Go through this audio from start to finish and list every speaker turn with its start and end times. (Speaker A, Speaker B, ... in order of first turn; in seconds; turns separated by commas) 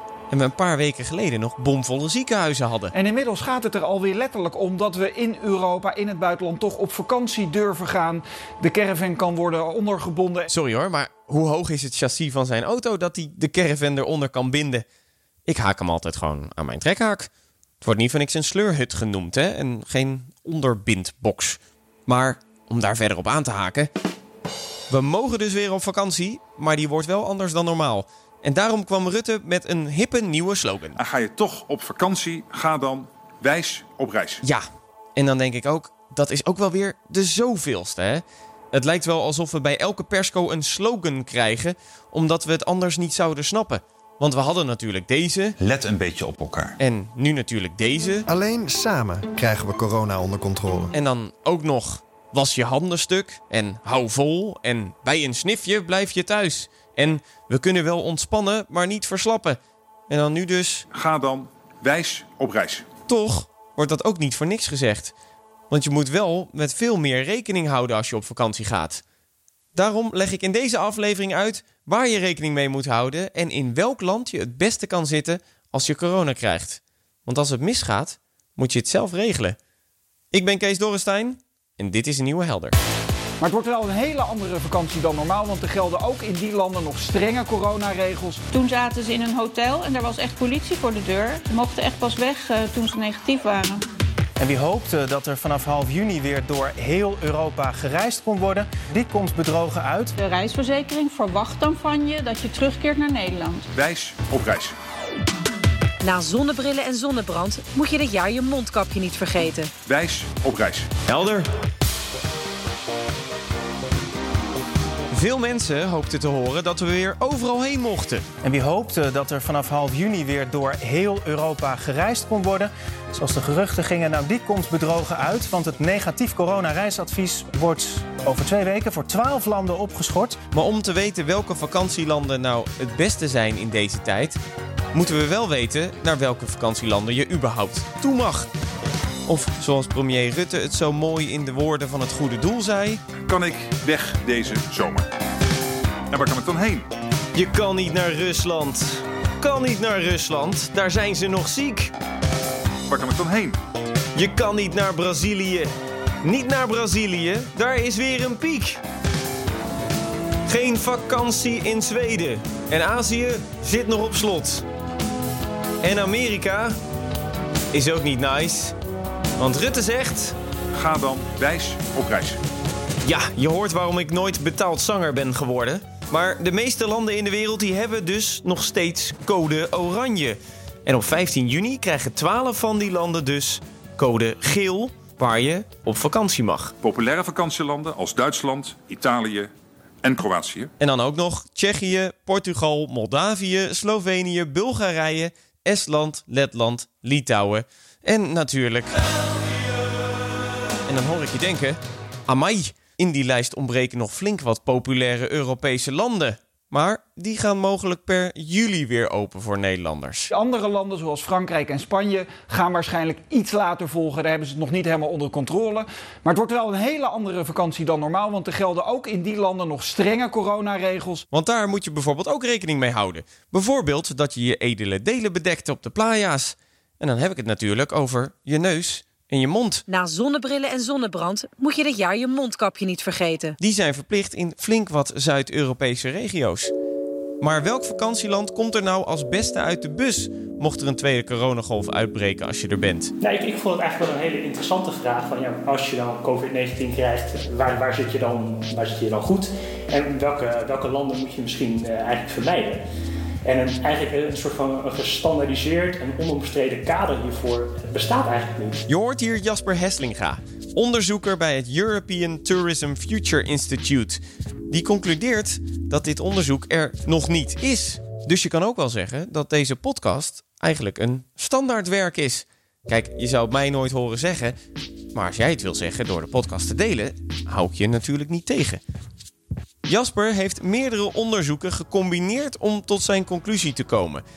Speaker A: 0.3-2.9, Speaker B: 2.9-10.5, Speaker A: 10.5-14.8, Speaker A: 15.5-17.3, Speaker A: 17.8-23.9, Speaker A: 24.9-31.0, Speaker C: 30.9-34.4, Speaker A: 35.1-45.5, Speaker C: 45.7-46.7, Speaker A: 46.8-48.2, Speaker D: 48.3-50.9, Speaker A: 50.9-59.6, Speaker A: 60.1-60.9, Speaker C: 60.9-62.9, Speaker A: 63.1-65.1, Speaker A: 65.7-69.0, Speaker A: 69.7-79.6, Speaker A: 80.3-82.8, Speaker B: 83.4-88.4, Speaker E: 88.5-93.8, Speaker F: 94.4-100.1, Speaker E: 100.2-103.7, Speaker C: 103.7-104.7, Speaker G: 106.0-109.7, Speaker C: 109.8-110.9, Speaker A: 111.1-111.5, Speaker A: 115.1-118.2, Speaker F: 118.4-130.4, Speaker A: 130.5-134.4, Speaker A: 134.9-138.5, Speaker A: 139.2-143.0, Speaker C: 143.3-145.1, Speaker C: 146.1-146.9, Speaker A: 147.3-151.9, Speaker C: 152.9-153.6, Speaker A: 154.1-155.7, Speaker A: 156.2-158.8, Speaker A: 160.4-164.6, Speaker A: 165.8-166.7, Speaker A: 167.7-168.7, Speaker A: 169.4-170.3, Speaker C: 170.7-172.4, Speaker A: 173.0-186.7, Speaker C: 186.8-189.5, Speaker C: 190.0-190.7, Speaker A: 190.8-199.5, Speaker A: 200.8-210.3, Speaker B: 210.3-221.2, Speaker A: 221.3-229.8, Speaker G: 229.9-233.6, Speaker A: 233.6-236.7, Speaker A: 237.4-243.1, Speaker H: 243.2-252.8, Speaker H: 253.4-258.9, Speaker A: 258.9-274.5, Speaker A: 275.1-278.8, Speaker A: 279.9-284.2